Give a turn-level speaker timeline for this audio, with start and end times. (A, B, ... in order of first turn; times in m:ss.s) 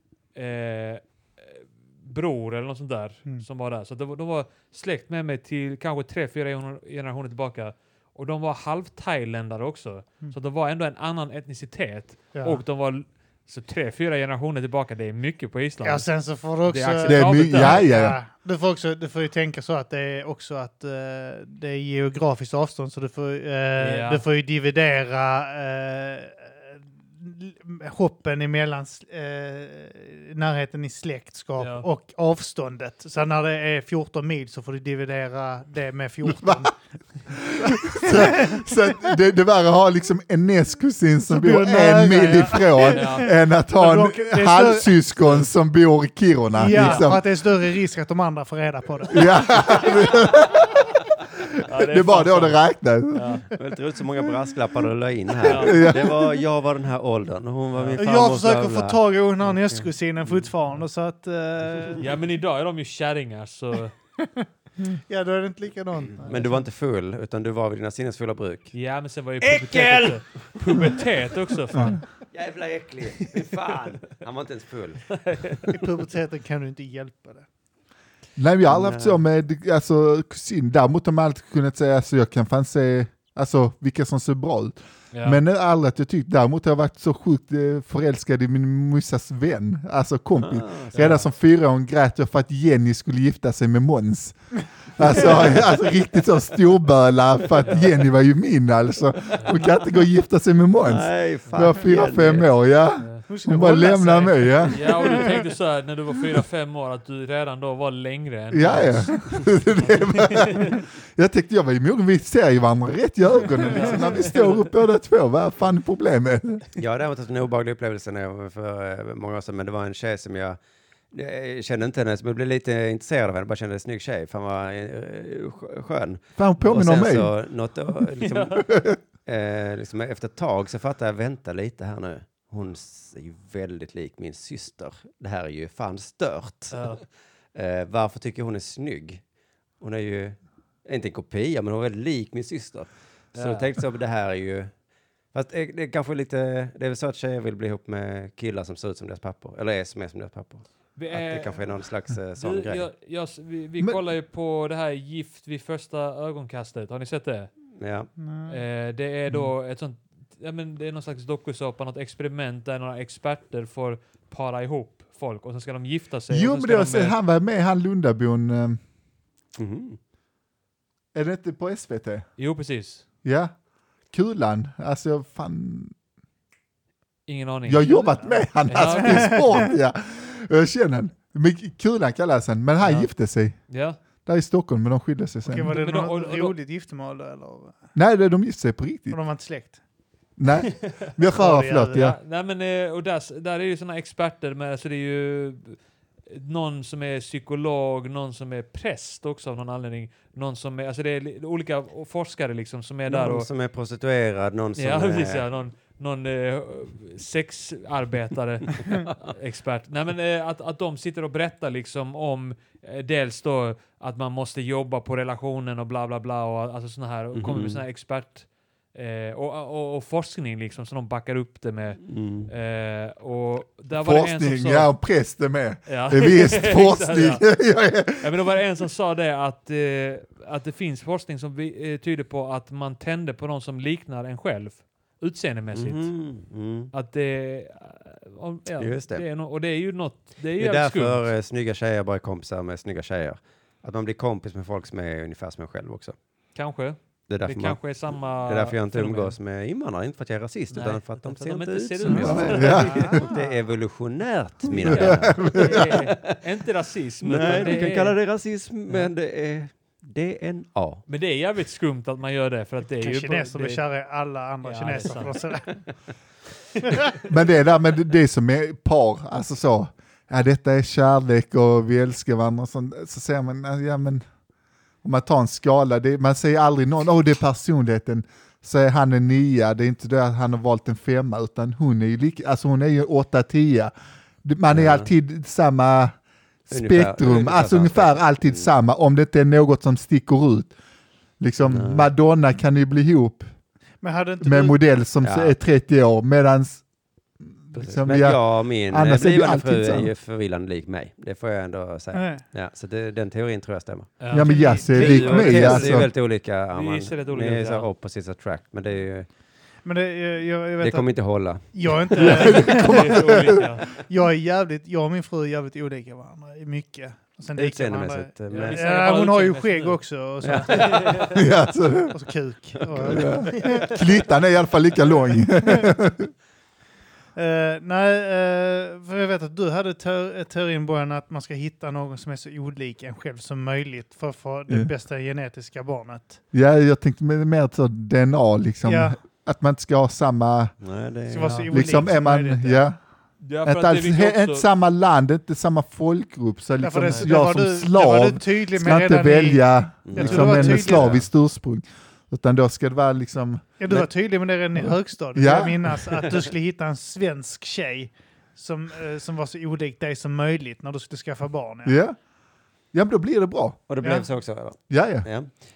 0:00.3-0:17.9 A
0:12.3-0:12.6 B
0:15.8-0:36.8 B
0:17.0-0:18.2 C
0:23.8-0:24.2 A
0:31.6-0:31.8 A
0:36.2-0:36.7 C
0:37.3-0:47.2 C
0:37.6-0:38.7 B
0:41.3-0:45.0 B
0:42.8-0:43.3 A
0:46.5-0:49.9 B
0:46.7-0:47.1 A
0:49.1-0:50.9 C
0:51.6-0:53.4 C
0:51.6-0:53.4 A
0:53.5-1:00.5 D
0:55.4-0:56.0 A
0:55.5-0:56.3 C
0:57.7-0:58.0 A
0:58.0-1:02.0 B
1:02.0-1:03.9 A
1:04.2-1:06.6 B
1:06.2-1:08.7 D
1:08.7-1:12.0 A
1:09.4-1:10.9 D
1:11.7-1:12.0 C
1:12.2-1:15.5 D
1:15.2-1:15.7 A
1:15.7-1:17.5 B
1:18.4-1:44.8 C
1:18.6-1:19.2 D
1:25.1-1:25.4 A
1:30.4-1:31.0 D
1:30.9-1:31.3 A
1:35.0-1:35.8 D
1:40.8-1:42.5 D
1:43.0-1:43.2 A
1:43.3-1:45.3 B
1:43.9-1:50.8 A
1:48.5-1:56.6 C
1:53.6-1:54.6 A
1:56.8-2:00.6 D
2:01.1-2:19.2 D
2:06.4-2:07.3 C
2:08.2-2:08.6 A
2:08.7-2:09.0 C
2:16.7-2:17.0 A
2:19.8-2:32.8 D
2:23.3-2:23.7 A
2:30.9-2:37.6 A
2:37.8-2:38.1 D
2:38.2-2:38.6 B
2:38.5-2:47.1 A
2:46.3-2:48.8 C
2:49.6-2:50.0 D
2:51.1-2:52.3 C
2:52.4-2:53.0 A
2:53.2-2:53.5 C
2:54.1-2:55.9 C
2:57.3-2:58.0 A
2:57.6-3:05.8 C
2:57.8-2:59.4 B
2:58.7-2:59.5 A
3:02.8-3:04.0 A
3:05.4-3:07.8 B
3:05.7-3:06.5 A
3:07.9-3:09.2 C
3:09.1-3:09.8 B
3:10.4-3:12.2 C
3:11.3-3:12.0 B
3:11.9-3:23.5 A
3:23.1-3:25.4 D
3:24.8-3:44.9 A
3:37.3-3:37.8 D
3:42.0-3:42.5 D
3:43.9-3:48.3 C
3:45.8-3:47.5 A
3:48.1-3:56.3 A
3:55.7-3:56.9 D
3:56.9-4:01.3 A
3:58.8-3:59.2 D
4:00.6-4:06.2 D
4:06.5-4:09.4 A
4:07.3-4:16.4 D
4:10.7-4:13.2 A
4:12.0-4:13.2 C
4:12.2-4:13.6 B
4:14.8-4:16.0 C
4:14.8-4:18.2 A
4:17.2-4:21.0 D
4:21.1-4:23.8 A
4:22.9-4:25.8 B
4:24.6-4:25.8 A
4:27.2-4:34.2 C
4:35.0-4:43.9 C
4:44.4-4:46.1 C
4:44.7-4:45.1 D
4:46.7-4:50.7 C
4:46.7-4:48.7 D
4:51.4-4:53.5 C
4:51.6-4:52.1 D
4:54.0-4:54.8 B
4:54.4-4:56.8 C
4:55.2-4:55.5 D
4:57.6-5:00.1 C
4:57.8-5:09.3 D
5:02.1-5:02.4 B
5:04.2-5:06.0 A
5:04.3-5:06.1 C
5:04.4-5:05.8 B
5:06.7-5:07.9 A
5:09.8-5:21.3 B
5:10.8-5:12.4 D
5:12.2-5:13.7 C
5:12.2-5:13.8 A
5:17.6-5:18.8 D
5:18.5-5:20.0 A
5:20.4-5:21.4 D
5:20.6-5:21.3 A
5:21.3-5:22.2 C
5:22.1-5:23.8 B
5:23.0-5:24.0 D
5:23.0-5:26.3 C
5:27.3-5:36.4 B
5:36.5-5:40.7 C
5:38.8-5:39.2 B
5:40.8-5:41.7 D
5:41.3-5:42.8 B
5:41.4-5:41.7 A
5:41.7-5:43.0 C
5:43.4-5:44.6 A
5:43.6-5:53.8 C
5:46.8-5:51.1 B
5:47.0-5:47.3 A
5:50.0-5:51.3 D
5:53.8-6:02.0 B
5:54.8-5:55.8 C
6:01.8-6:02.2 C
6:02.9-6:03.9 C
6:03.9-6:05.5 D
6:04.0-6:04.2 B
6:04.9-6:05.3 C